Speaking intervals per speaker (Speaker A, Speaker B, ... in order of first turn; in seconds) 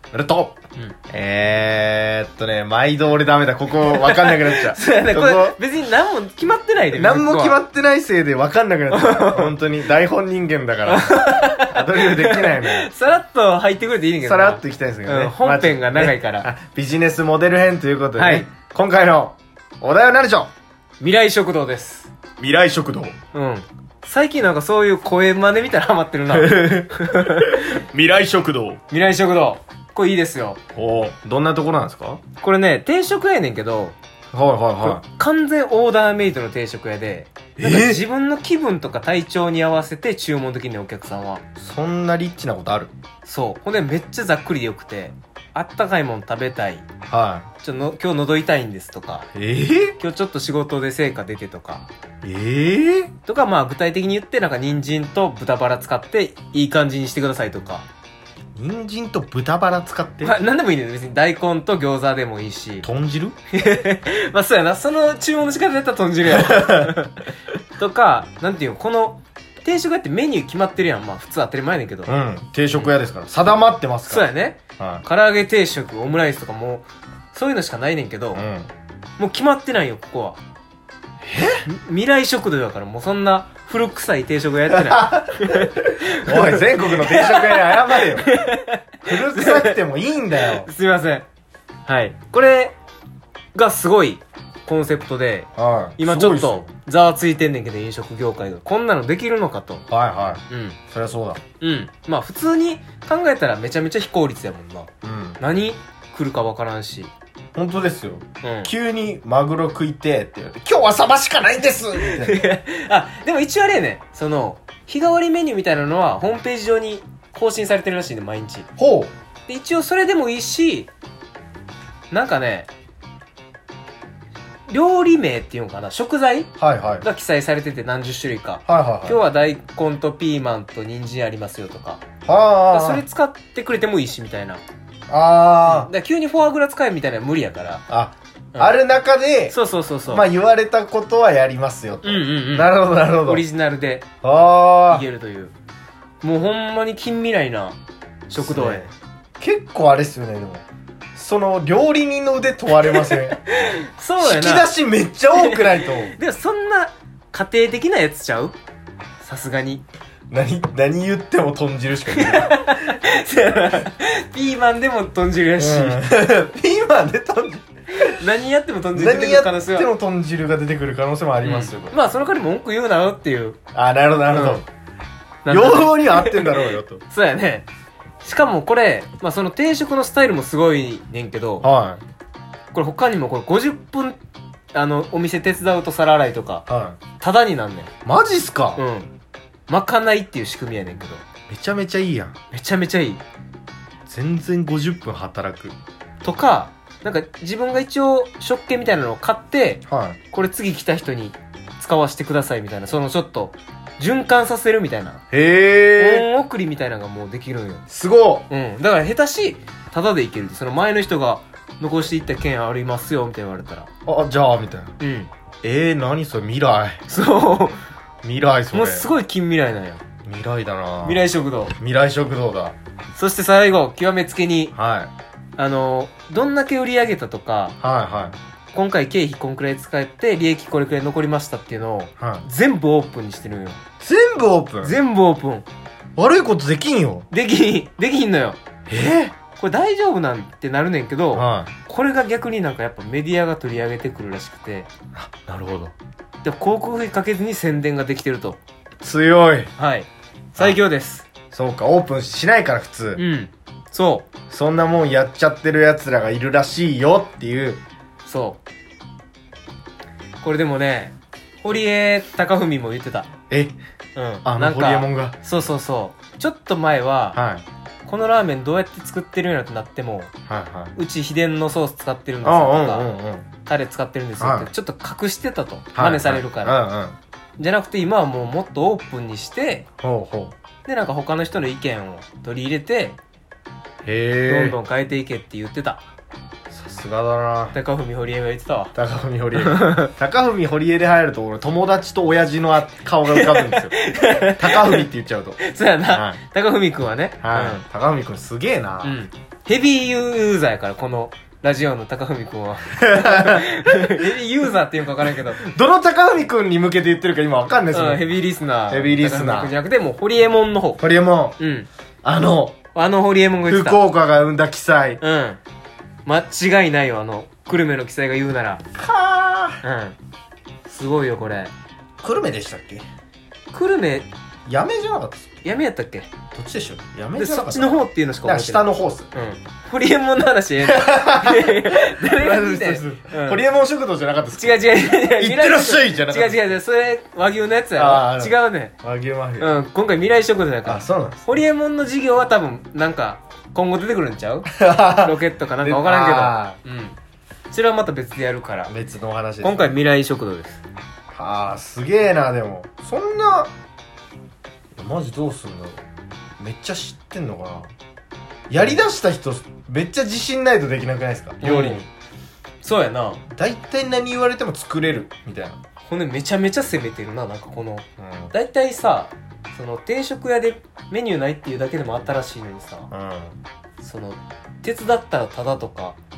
Speaker A: 0.1-0.6, 1.1-5.6, 6.9-12.9, 14.2-20.5, 22.4-23.2, 26.3-28.8, 30.7-32.2, 34.3-35.0, 37.6-38.0, 41.6-42.9, 47.1-47.5, 49.3-50.0, 52.2-53.1, 58.5-60.4, 62.8-63.4, 66.3-66.9, 72.1-74.3, 74.8-75.0, 78.3-78.7, 81.2-81.6, 84.7-88.3, 89.0-90.7, 95.6-96.7, 99.9-101.4, 105.0-105.4, 107.5-112.5, 118.8-119.1, 126.6-127.1, 128.7-129.2, 132.2-133.0, 135.1-135.9, 137.9-139.6, 140.1-143.4, 144.2-145.1, 148.4-153.4, 154.2-156.2, 160.3-162.7, 165.6-167.7, 168.9-172.0, 173.7-174.6, 175.5-177.0, 181.6-182.0, 186.7-187.0, 188.1-188.8, 191.5-192.3, 194.1-195.8, 199.9-200.2, 205.3-206.3, 207.9-208.5, 214.1-215.0, 215.6-217.0, 218.2-219.1, 220.2-222.8, 224.7-225.1, 227.8-228.4, 232.2-232.4, 234.0-235.0, 236.2-237.3, 238.9-239.4, 241.3-241.7, 245.2-245.9, 249.0-249.7, 251.5-253.2, 254.5-257.8, 263.5-263.8, 264.4-265.4, 267.3-267.6, 270.5-271.0, 272.4-273.5, 274.4-274.7, 275.9-277.2, 280.0-280.5, 284.1-284.8, 286.7-287.8, 288.9-296.4, 297.4-299.2, 302.9-304.2, 305.6-308.2, 308.9-309.8, 311.0-311.6, 312.2-312.8, 313.7-315.2, 319.0-319.8, 322.2-323.1, 324.7-325.5, 326.5-329.3, 330.8-336.7, 337.9-339.7, 340.9-341.4, 344.7-346.8, 348.9-350.0, 351.3-353.7, 354.9-356.0, 356.6-357.9, 358.7-362.1, 363.5-365.8, 368.2-368.5, 373.1-373.6
Speaker B: 3.8-7.6, 8.9-9.6, 10.9-16.5, 18.2-18.5, 21.0-22.1, 23.3-27.8, 28.9-30.6, 32.4-34.0, 34.8-41.4, 43.2-46.9, 47.6-49.3, 50.0-51.9, 53.2-57.9, 60.2-62.9, 63.5-67.3, 67.8-72.1, 74.1-78.4, 79.2-80.4, 81.7-89.8, 90.3-91.3, 91.9-92.8, 93.5-99.8, 100.5-100.8, 101.6-107.1, 108.4-108.7, 112.0-118.7, 119.5-120.9, 122.1-122.7, 124.7-132.0, 132.7-134.6, 135.6-137.8, 139.5-140.3, 142.0-144.1, 144.9-145.5, 146.2-148.9, 152.9-154.7, 155.3-158.6, 159.2-159.8, 162.1-166.0, 167.9-169.9, 171.4-173.6, 174.3-174.6, 175.4-177.7, 178.2-181.7, 182.7-184.2, 184.7-186.7, 187.2-187.9, 188.8-189.1, 189.7-191.2, 192.5-193.2, 196.2-205.2, 206.0-207.8, 208.5-213.9, 215.0-215.3, 217.1-217.8, 218.7-220.0, 221.0-221.8, 223.2-224.7, 225.6-227.8, 228.7-233.8, 234.8-235.7, 237.3-238.6, 239.6-244.9, 246.4-248.6, 249.8-251.3, 253.2-254.3, 258.2-258.6, 260.4-263.3, 264.1-267.4, 268.1-270.3, 271.0-273.1, 273.7-276.8, 277.6-279.9, 280.9-283.2, 284.5-286.1, 287.7-288.9, 289.6-290.1, 293.3-295.1, 295.6-297.8, 299.0-305.6, 307.9-311.0, 311.6-311.9, 312.9-314.0, 315.2-315.6, 316.2-318.8, 319.8-320.2, 320.9-321.7, 323.7-324.3, 325.6-326.3, 327.4-333.6, 334.6-338.9, 339.6-347.2, 347.7-348.9, 349.6-350.8, 361.6-362.1, 362.8-363.4, 366.1-373.1, 374.0-376.2